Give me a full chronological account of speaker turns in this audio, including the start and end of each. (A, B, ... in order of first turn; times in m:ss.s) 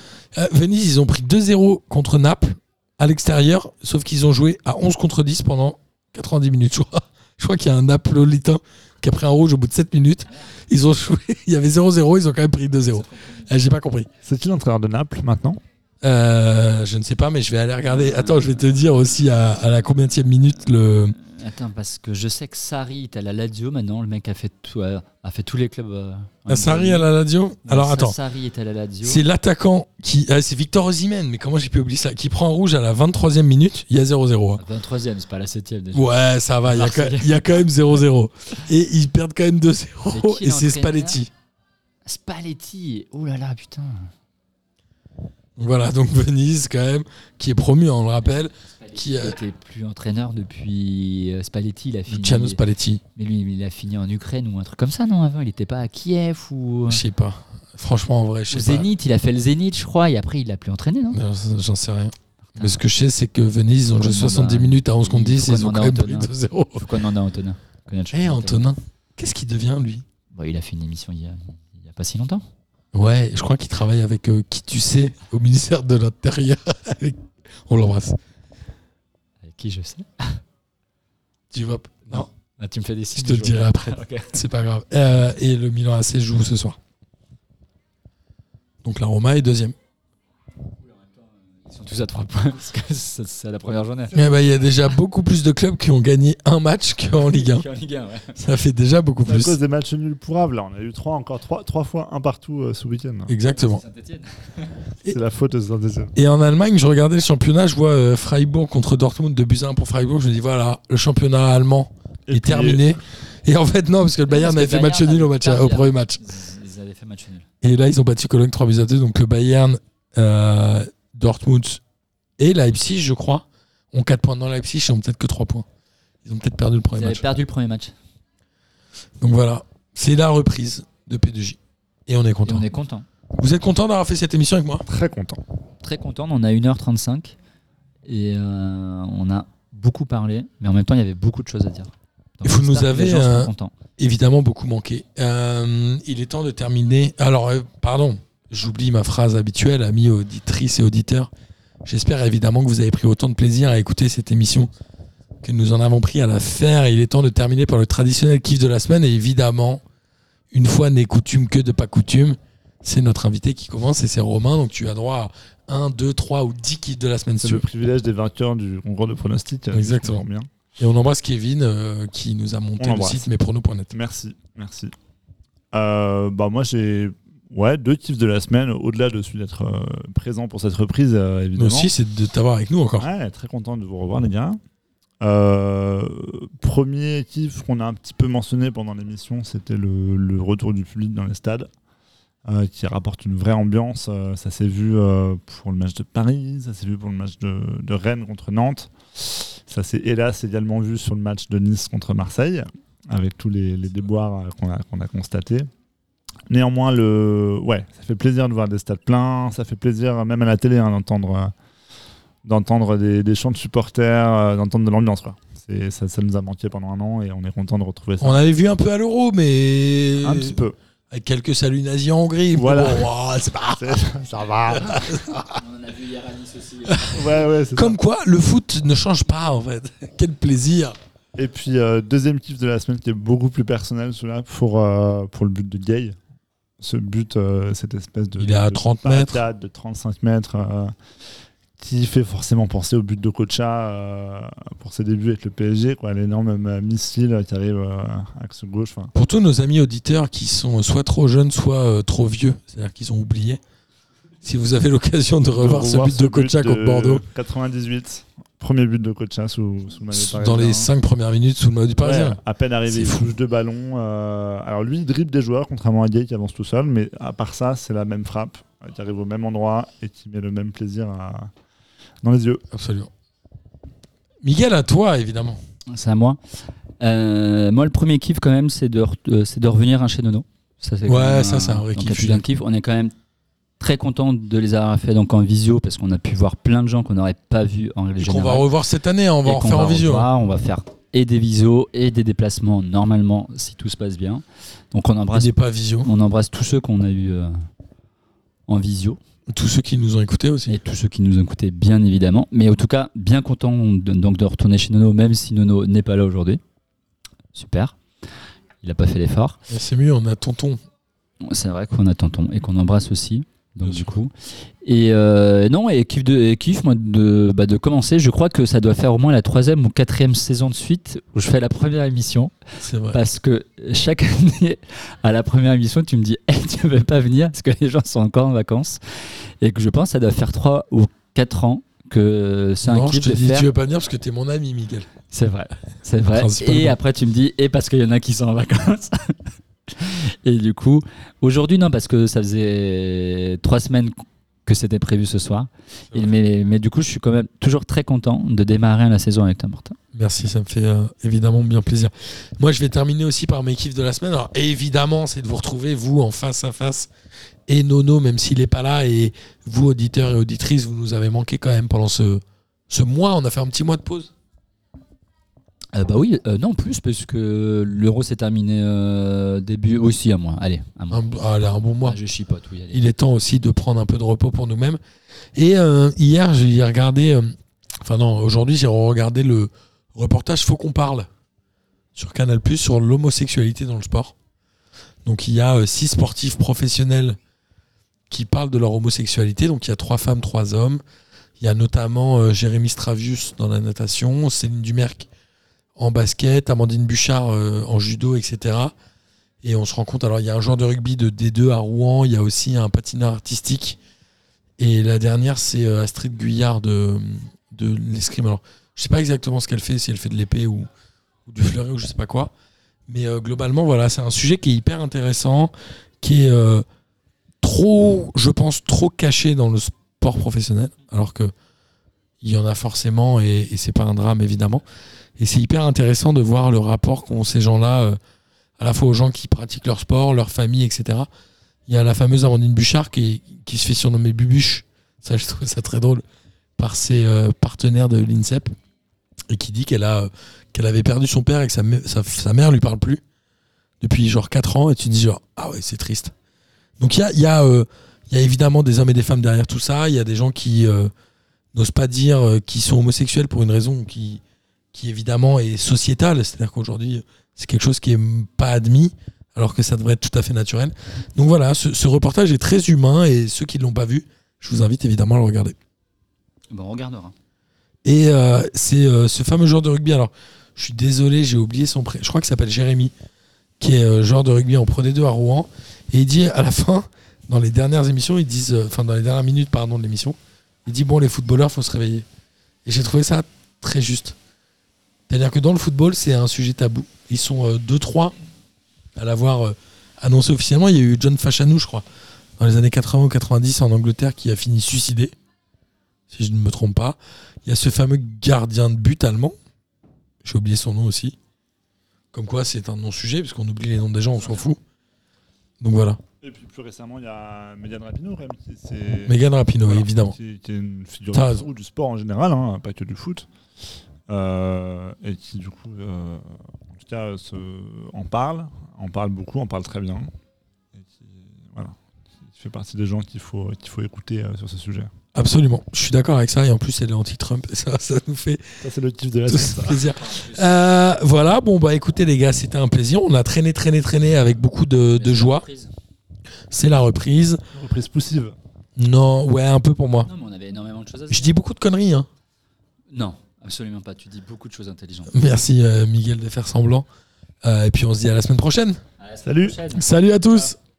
0:00.3-0:14.1 A
0:12.9-0:13.6 B
0:14.2-0:15.6 C
0:16.0-0:21.2 A
0:17.9-0:18.6 B
0:21.2-0:27.1 B
0:26.5-0:28.1 A
0:27.6-0:29.2 B
0:29.0-0:34.6 A
0:34.6-0:36.1 B
0:35.9-0:41.3 A
0:36.6-0:37.6 B
0:40.1-0:41.2 B
0:42.0-0:44.1 B
0:45.6-0:49.4 A
0:48.2-0:57.0 B
0:52.1-0:53.0 A
0:56.9-0:58.8 A
0:58.5-1:01.2 B
1:01.1-1:06.9 A
1:02.5-1:02.8 B
1:04.0-1:08.7 B
1:08.1-1:10.0 A
1:10.3-1:12.4 B
1:12.9-1:18.2 A
1:19.4-1:20.4 B
1:21.5-1:22.3 A
1:22.1-1:24.3 B
1:23.2-1:26.8 A
1:28.8-1:29.8 A
1:30.8-1:34.2 B
1:34.1-1:37.6 A
1:37.2-1:38.4 B
1:38.3-1:39.6 A
1:39.2-1:43.3 C
1:43.3-1:43.8 A
1:43.6-1:44.8 B
1:45.0-1:46.1 C
1:46.2-1:56.2 A
1:52.3-1:53.0 C
1:54.3-1:57.5 B
1:57.6-2:01.8 A
2:02.4-2:05.6 A
2:06.2-2:07.3 A
2:06.9-2:07.9 B
2:09.2-2:12.6 A
2:12.4-2:13.0 B
2:13.4-2:14.8 A
2:14.8-2:15.4 C
2:15.8-2:17.3 B
2:18.0-2:23.7 B
2:22.4-2:31.3 A
2:31.8-2:34.7 A
2:35.4-2:39.8 A
2:40.5-2:47.6 A
2:47.4-2:50.5 C
2:49.7-2:50.2 A
2:50.8-2:53.9 A
2:52.8-2:53.3 C
2:53.9-2:54.9 C
2:55.7-3:01.9 C
3:01.6-3:03.1 A
3:03.0-3:04.6 C
3:05.2-3:11.7 C
3:12.4-3:25.7 C
3:26.5-3:31.5 C
3:32.4-3:38.4 C
3:38.2-3:44.0 A
3:40.2-3:40.8 C
3:42.5-3:43.1 C
3:43.7-3:45.2 C
3:44.7-3:45.6 A
3:45.5-3:47.5 B
3:47.1-3:48.0 C
3:47.7-3:51.0 A
3:51.4-3:56.2 C
3:56.8-4:00.9 C
3:58.4-3:59.4 A
4:01.8-4:09.1 C
4:09.1-4:13.6 A
4:14.4-4:17.2 A
4:15.5-4:20.9 C
4:20.1-4:23.3 A
4:22.0-4:31.5 C
4:32.2-4:32.6 C
4:32.7-4:33.1 A
4:34.4-4:35.6 A
4:35.9-4:36.4 B
4:37.0-4:43.1 B
4:41.0-4:42.4 A
4:43.8-4:48.7 B
4:48.2-4:50.3 A
4:49.4-4:57.6 B
4:55.3-4:56.1 A
4:58.7-4:59.2 B
4:59.5-5:00.8 A
5:00.7-5:06.6 B
5:07.5-5:08.0 B
5:08.8-5:09.6 B
5:09.7-5:10.8 A
5:11.4-5:14.3 B
5:13.8-5:14.2 A
5:14.8-5:22.5 B
5:22.8-5:23.2 A
5:23.1-5:33.7 B
5:32.8-5:35.1 A
5:35.3-5:50.0 B
5:36.3-5:37.0 A
5:50.1-5:57.1 A
5:57.7-6:04.3 A
6:05.9-6:11.2 B
6:11.1-6:12.2 A
6:12.0-6:13.0 B
6:12.9-6:15.0 A
6:15.6-6:21.3 A
6:22.1-6:24.3 A
6:25.2-6:27.4 A
6:28.3-6:31.0 A
6:31.6-6:35.3 A
6:36.0-6:38.9 A
6:39.6-6:44.0 A
6:44.8-6:50.9 A
6:51.4-6:52.5 A
6:53.1-6:56.8 A
6:57.6-7:01.5 A
7:02.4-7:04.8 A
7:05.4-7:08.2 A
7:08.8-7:11.3 A
7:11.9-7:16.2 A
7:16.8-7:18.7 A
7:19.5-7:23.2 A
7:24.0-7:26.3 A
7:27.0-7:31.1 A
7:31.7-7:34.4 A
7:34.9-7:45.8 A
7:46.7-7:47.3 B
7:48.0-7:53.1 A
7:53.8-8:02.3 A
8:02.8-8:04.4 A
8:05.3-8:08.3 A
8:09.2-8:12.0 A
8:12.6-8:15.3 A
8:16.3-8:19.6 A
8:20.4-8:21.4 A
8:22.3-8:24.8 A
8:25.8-8:26.2 A
8:26.4-8:33.5 C
8:29.3-8:30.4 A
8:31.3-8:31.6 A
8:34.3-8:40.3 C
8:40.9-8:45.1 C
8:45.3-8:48.8 A
8:48.8-8:50.1 C
8:49.5-8:55.6 A
8:50.2-8:50.6 B
8:55.1-8:55.9 B
8:56.7-8:57.6 A
8:57.7-8:58.6 C
8:59.0-9:00.3 A
9:00.2-9:01.5 B
9:01.3-9:02.3 A
9:03.1-9:05.4 B
9:05.3-9:07.1 A
9:07.6-9:09.0 A
9:09.2-9:10.0 B
9:09.4-9:09.8 C
9:09.9-9:10.8 A